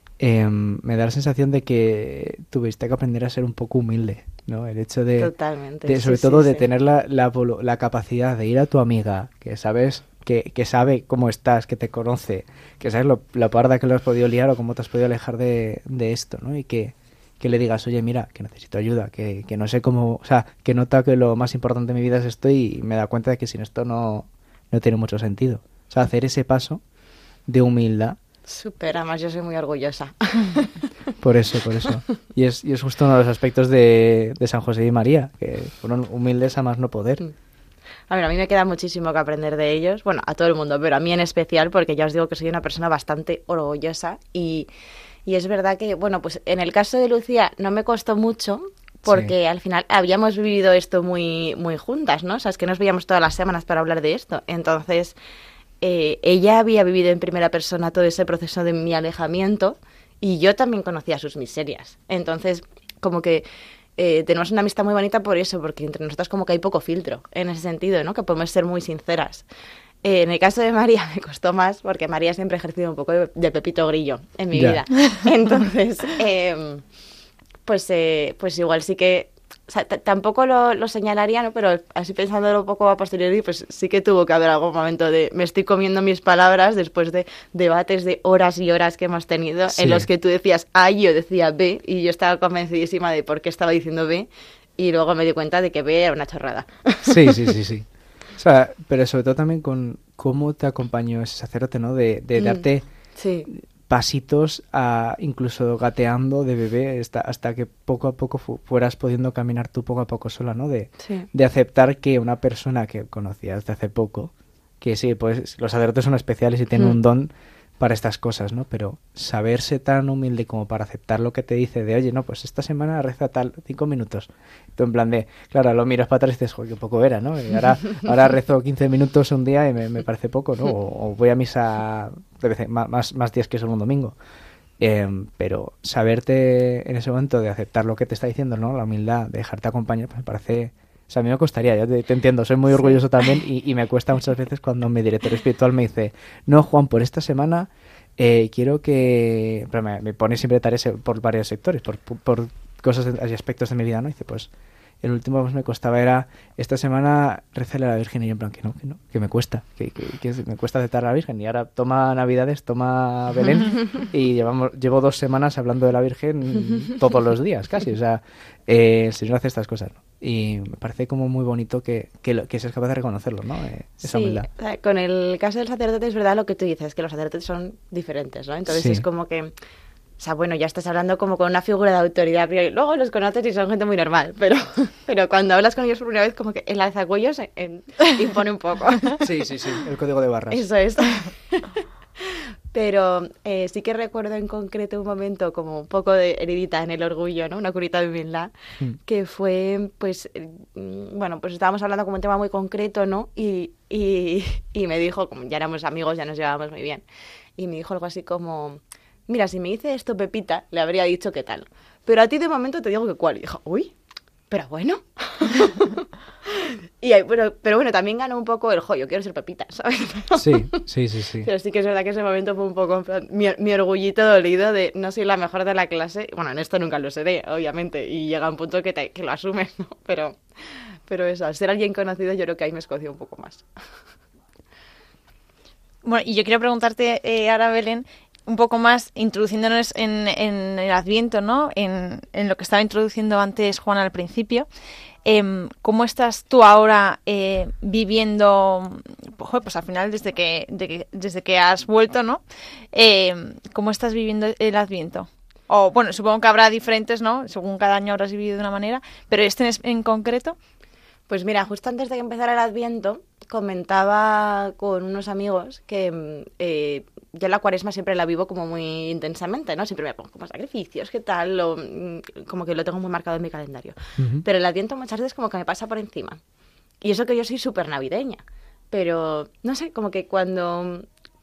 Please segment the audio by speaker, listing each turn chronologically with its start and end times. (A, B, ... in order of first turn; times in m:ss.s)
0:00.2-0:05.3 A
0:05.2-0:06.7 B
0:05.8-0:26.8 A
0:27.5-0:28.2 A
0:28.5-0:30.8 B
0:31.2-0:37.2 A
0:38.1-0:44.7 B
0:45.2-0:55.1 B
0:49.0-0:49.3 A
0:55.8-1:03.4 B
1:04.0-1:09.4 B
1:10.0-1:16.8 B
1:14.5-1:14.8 A
1:17.6-1:37.5 B
1:29.7-1:30.1 A
1:37.1-1:42.8 A
1:42.4-1:42.6 B
1:43.2-1:43.5 B
1:43.5-2:14.1 A
1:51.0-1:51.3 B
2:14.8-2:34.5 A
2:35.0-2:54.5 A
2:54.0-2:59.5 B
2:58.7-2:59.0 A
3:00.2-3:09.3 B
3:09.2-3:10.6 A
3:10.5-3:18.5 B
3:19.0-3:27.0 B
3:27.6-3:33.9 B
3:34.5-3:40.8 B
3:40.4-3:41.5 A
3:41.4-3:53.6 B
3:56.0-4:04.7 C
4:05.2-4:12.4 C
4:12.9-4:20.6 C
4:21.3-4:36.4 B
4:34.2-4:34.4 A
4:37.0-4:41.1 B